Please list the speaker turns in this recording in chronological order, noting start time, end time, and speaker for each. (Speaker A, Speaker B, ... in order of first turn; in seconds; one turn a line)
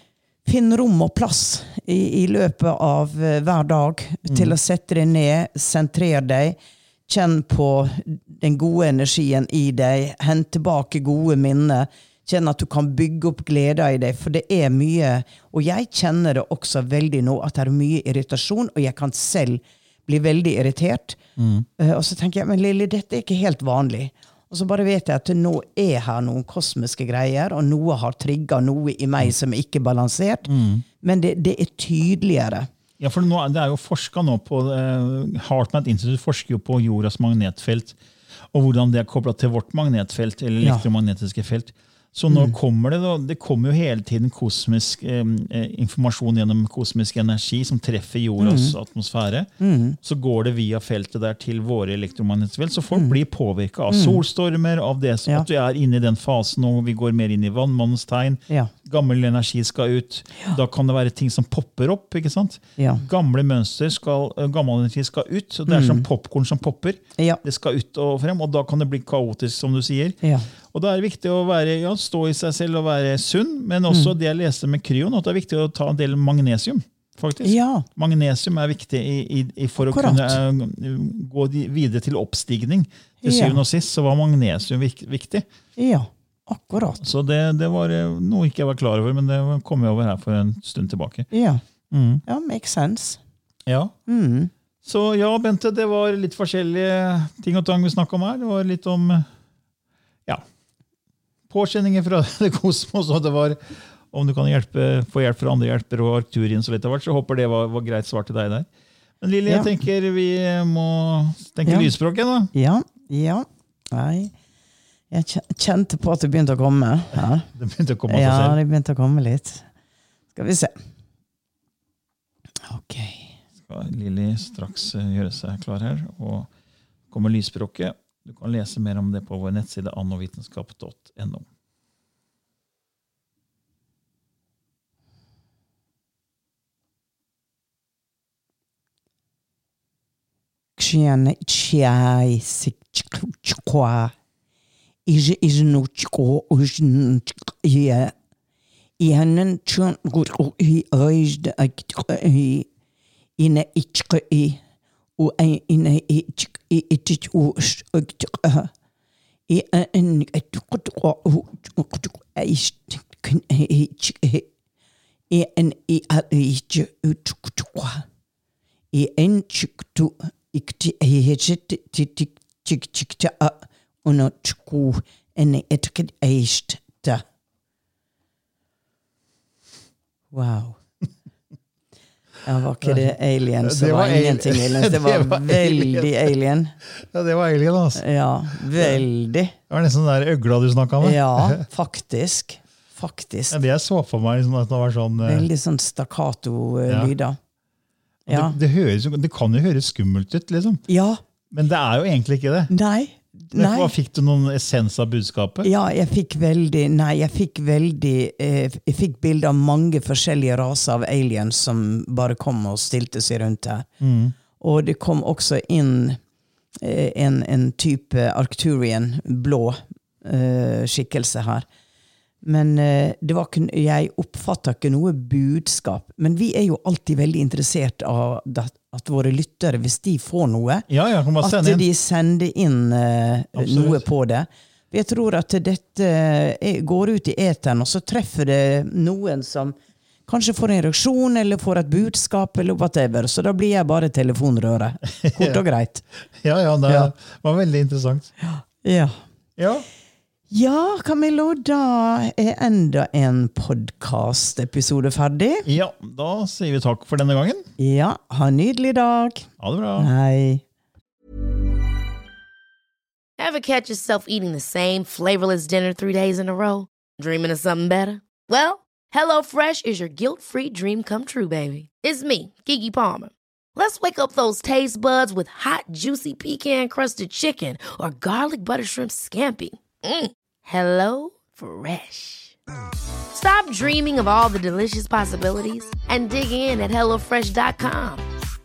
Speaker A: 0.4-21.2
Speaker B: 4.3-4.5
Speaker B: 21.4-21.6
Speaker A: 21.8-32.7
Speaker B: 30.5-30.8
Speaker B: 33.0-38.0
Speaker B: 38.5-49.5
Speaker A: 42.3-42.5
Speaker A: 48.4-48.8
Speaker A: 49.6-50.0
Speaker B: 50.0-70.2
Speaker A: 53.9-54.2
Speaker A: 62.8-63.0
Speaker A: 65.7-66.0
Speaker A: 70.2-70.5
Speaker B: 70.7-85.5
Speaker A: 77.4-77.8
Speaker A: 79.8-80.4
Speaker A: 83.2-83.6
Speaker A: 85.8-87.1
Speaker B: 87.0-91.3
Speaker A: 91.3-91.6
Speaker B: 91.9-92.2
Speaker A: 92.2-93.2
Speaker B: 93.7-93.9
Speaker A: 94.1-94.5
Speaker B: 94.8-99.3
Speaker B: 101.5-108.7
Speaker B: 109.2-112.5
Speaker A: 109.5-109.7
Speaker A: 111.6-111.9
Speaker A: 112.5-114.3
Speaker A: 115.1-117.5
Speaker B: 117.5-118.6
Speaker A: 118.1-119.7
Speaker A: 120.3-120.8
Speaker A: 122.6-123.3
Speaker B: 123.6-126.5
Speaker B: 127.1-131.5
Speaker A: 140.8-144.1
Speaker A: 145.1-148.1
Speaker A: 149.0-152.7
Speaker A: 153.4-154.6
Speaker A: 155.2-158.7
Speaker A: 159.5-164.5
Speaker A: 165.3-168.0
Speaker A: 168.9-177.2
Speaker A: 180.3-180.8
Speaker A: 182.4-186.7
Speaker B: 182.8-183.1
Speaker B: 183.6-186.3
Speaker B: 186.9-188.0
Speaker A: 187.9-189.5
Speaker B: 188.7-189.0
Speaker B: 189.7-191.6
Speaker A: 191.0-193.6
Speaker B: 193.5-195.5
Speaker A: 195.2-197.4
Speaker B: 196.9-197.1
Speaker A: 198.3-198.6
Speaker B: 198.3-200.8
Speaker A: 200.9-201.2
Speaker B: 201.5-202.7
Speaker A: 202.7-203.9
Speaker B: 203.5-205.7
Speaker A: 205.6-213.9
Speaker B: 214.0-214.3
Speaker A: 214.6-216.2
Speaker A: 216.8-221.7
Speaker A: 222.4-230.9
Speaker B: 230.9-231.8
Speaker A: 231.4-239.8
Speaker B: 233.5-234.0
Speaker A: 240.3-246.0
Speaker B: 245.2-245.6
Speaker B: 246.4-248.3
Speaker A: 246.9-247.1
Speaker A: 248.4-249.2
Speaker B: 249.6-249.9
Speaker A: 250.5-255.7
Speaker B: 255.7-257.7
Speaker A: 257.8-260.6
Speaker B: 259.6-260.1
Speaker C: 263.4-282.5
Speaker C: 283.3-288.2